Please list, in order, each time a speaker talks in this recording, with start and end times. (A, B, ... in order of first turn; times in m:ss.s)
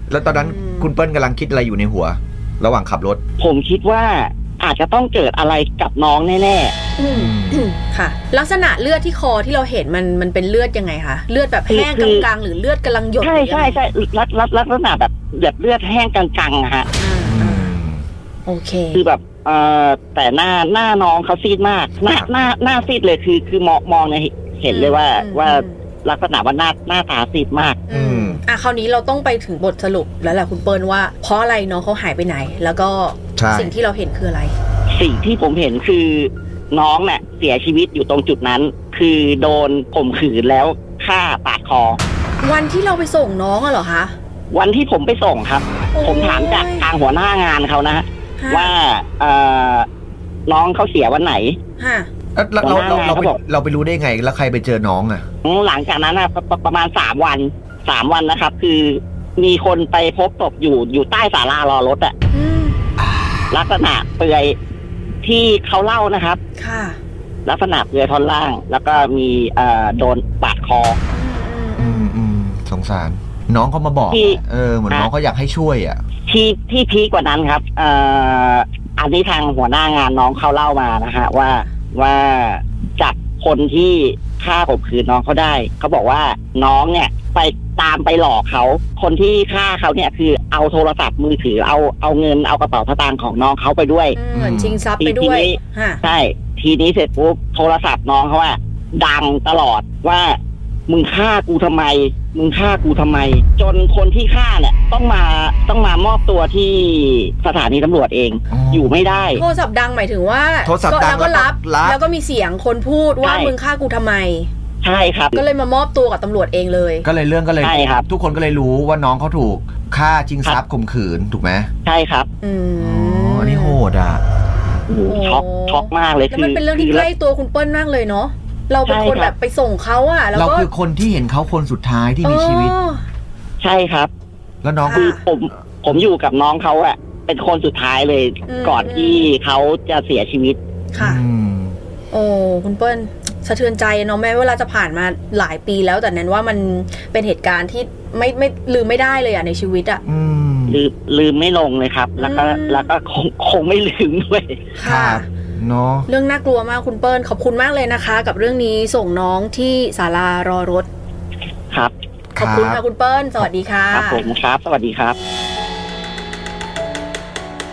0:00.1-0:03.2 A
0:00.2-0:00.9 B
0:03.4-0:06.8 C
0:07.0-0:13.8 B
0:07.1-0:07.7 A
0:11.7-0:12.3 C
0:13.2-0:16.9 C
0:17.0-0:17.8 B
0:17.2-0:18.0 A
0:18.5-0:19.0 B
0:18.9-0:27.8 C
0:22.0-0:22.3 A
0:24.7-0:25.8 B
0:27.9-0:34.6 B
0:27.9-0:28.4 A
0:33.4-0:33.7 A
0:34.9-0:42.0 C
0:42.4-0:44.1 B
0:44.5-0:49.9 C
0:45.9-0:46.8 B
0:48.4-0:48.7 B
0:50.5-0:51.6 C
0:51.8-0:52.1 B
0:52.4-0:55.2 A
0:52.6-0:53.4 C
0:55.4-1:02.2 C
1:02.3-1:02.8 B
1:03.5-1:04.6 C
1:05.2-1:06.4 C
1:06.6-1:07.0 B
1:07.4-1:11.0 C
1:11.1-1:12.1 B
1:11.8-1:16.0 A
1:14.1-1:15.1 C
1:16.3-1:34.2 C
1:34.2-1:36.0 B
1:34.3-1:34.8 A
1:35.0-1:49.4 C
1:48.5-1:49.4 A
1:49.4-1:54.5 B
1:50.6-1:52.0 A
1:53.2-1:53.5 C
1:54.8-1:55.4 C
1:55.3-1:57.1 B
1:57.0-2:01.7 A
1:57.6-1:58.1 C
2:01.8-2:02.3 C
2:02.4-2:03.8 B
2:02.8-2:04.2 A
2:04.9-2:07.1 C
2:05.1-2:10.7 B
2:08.9-2:09.3 C
2:10.4-2:12.8 A
2:12.2-2:13.0 B
2:13.6-2:14.1 C
2:14.6-2:15.1 A
2:14.8-2:15.2 B
2:14.9-2:20.6 C
2:18.5-2:19.3 B
2:20.9-2:21.2 B
2:21.0-2:21.8 A
2:22.1-2:30.0 B
2:30.1-2:30.8 A
2:30.7-2:34.6 C
2:32.2-2:32.9 B
2:34.8-2:35.3 B
2:34.8-2:36.1 A
2:36.1-2:40.9 B
2:42.3-2:42.8 A
2:42.4-2:44.3 B
2:43.9-2:45.2 C